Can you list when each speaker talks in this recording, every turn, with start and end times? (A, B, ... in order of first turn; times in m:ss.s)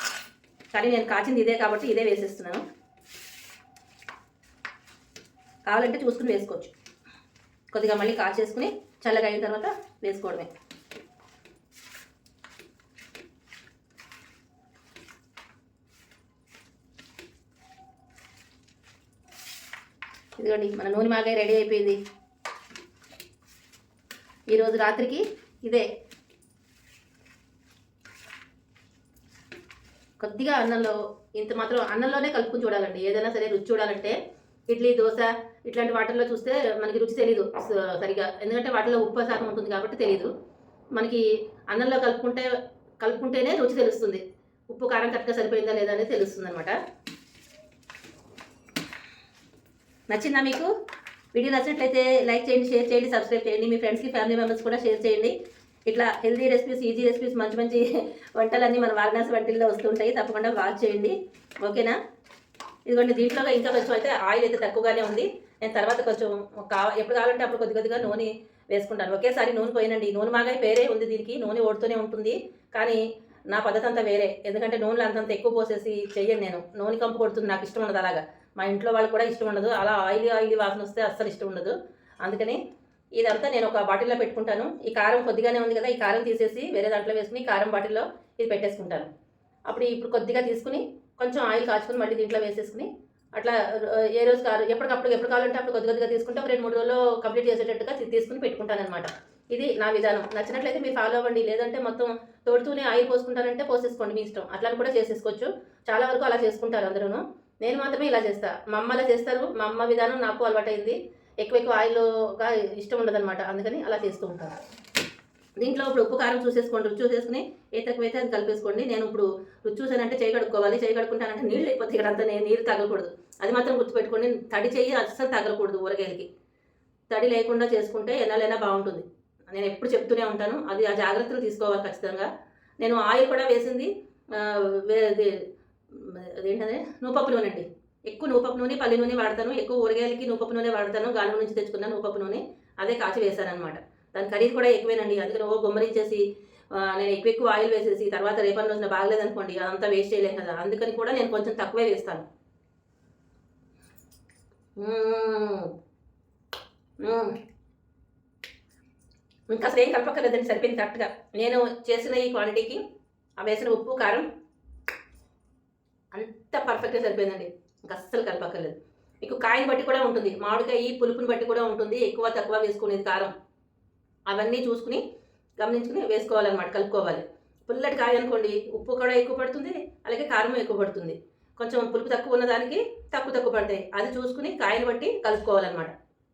0:00.7-0:02.6 A
0:05.7-0:06.7 A
0:07.7-0:10.5 A
0:20.4-0:22.0 A
0:24.5-0:25.8 A
0:30.2-0:34.2 A
0:34.7-0:40.3 A
0:41.0-0:42.5 A
0:43.0-0:46.8 A
0:50.1-0:50.7 A
0:51.3-0:55.3 A
0:55.9-1:02.0 A
1:02.9-1:13.0 A
1:13.5-1:22.6 A
1:23.2-1:29.1 A
1:29.7-1:54.6 A
1:55.6-2:06.2 A
2:07.1-2:12.3 A
2:12.8-2:32.2 A
2:34.8-2:35.7 A
2:37.0-2:37.3 A
2:39.5-2:42.8 A
2:43.4-2:44.3 A
2:46.1-2:53.3 A
2:54.3-2:55.0 A
2:55.6-3:05.9 A